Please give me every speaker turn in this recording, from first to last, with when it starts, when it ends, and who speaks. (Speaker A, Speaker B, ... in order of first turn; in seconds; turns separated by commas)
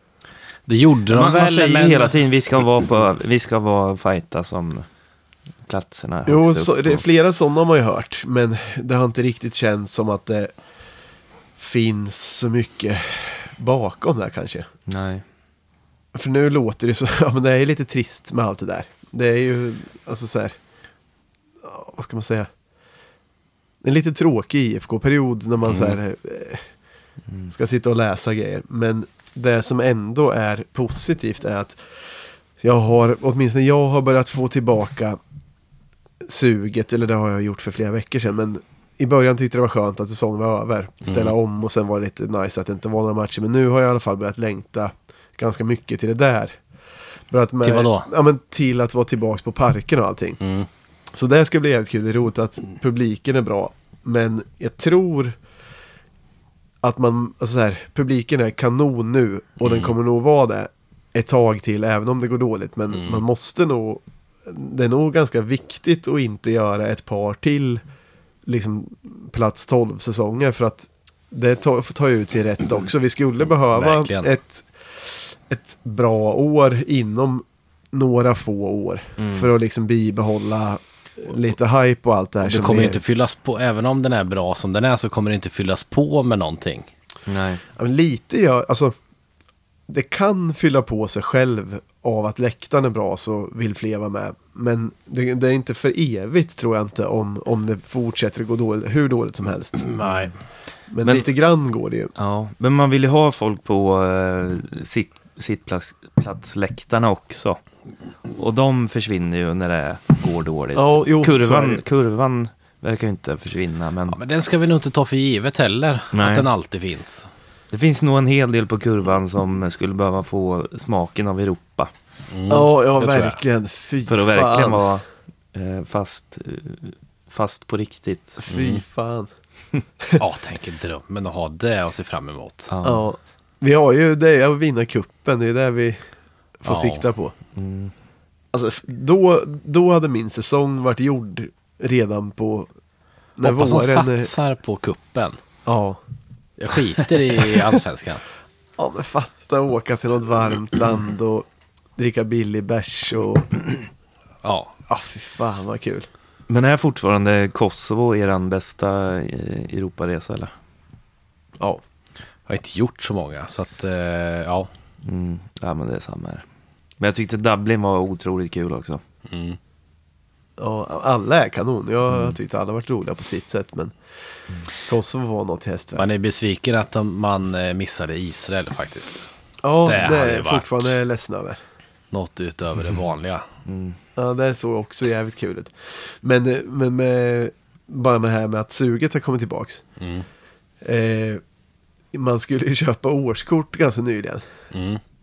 Speaker A: 0.7-2.2, Speaker B: 1.1-4.8, Speaker B: 5.6-7.0, Speaker C: 6.2-10.5, Speaker C: 11.6-14.7, Speaker B: 14.9-15.2, Speaker C: 16.1-20.6, Speaker C: 21.6-22.5, Speaker C: 23.8-26.7, Speaker B: 25.7-26.0, Speaker C: 27.5-31.8, Speaker C: 32.6-35.2, Speaker C: 36.2-46.6, Speaker A: 41.0-41.3, Speaker C: 47.3-50.4, Speaker A: 47.6-48.1, Speaker A: 50.4-50.7, Speaker C: 51.1-55.4, Speaker C: 56.8-67.8, Speaker A: 59.6-59.9, Speaker A: 62.9-63.2, Speaker C: 68.5-83.0, Speaker A: 73.7-74.3, Speaker B: 79.2-79.5, Speaker A: 82.4-86.9, Speaker B: 87.3-87.6, Speaker C: 87.7-88.9, Speaker C: 89.9-99.9, Speaker A: 99.9-100.3, Speaker B: 100.0-100.3, Speaker C: 100.9-102.1, Speaker B: 102.2-107.6, Speaker B: 108.3-114.2, Speaker C: 110.7-111.8, Speaker A: 114.1-117.3, Speaker B: 116.1-116.5, Speaker B: 117.7-121.9, Speaker A: 122.3-123.4, Speaker C: 122.5-124.9, Speaker B: 124.1-125.0, Speaker B: 125.5-128.4, Speaker C: 128.4-129.3, Speaker A: 128.5-128.8, Speaker A: 130.2-132.7, Speaker B: 132.7-133.0, Speaker C: 132.8-136.0, Speaker C: 136.6-137.3, Speaker A: 136.7-137.0, Speaker B: 137.6-137.9, Speaker C: 138.5-142.7, Speaker C: 143.4-144.3, Speaker A: 143.4-145.4, Speaker C: 145.7-146.0, Speaker A: 146.6-148.2, Speaker C: 148.8-151.4, Speaker C: 152.0-153.8, Speaker A: 154.4-154.7, Speaker C: 154.9-156.1, Speaker B: 156.5-160.5, Speaker A: 162.5-164.7, Speaker B: 165.0-166.4, Speaker B: 167.0-169.0, Speaker A: 169.3-169.6, Speaker C: 170.6-173.9, Speaker C: 174.8-176.1, Speaker A: 175.9-179.2, Speaker C: 179.6-181.6, Speaker A: 179.8-180.9, Speaker A: 182.1-183.4, Speaker B: 183.7-184.0, Speaker C: 184.2-189.8, Speaker A: 190.0-190.2, Speaker C: 190.8-191.4, Speaker C: 192.1-194.4, Speaker A: 194.7-195.0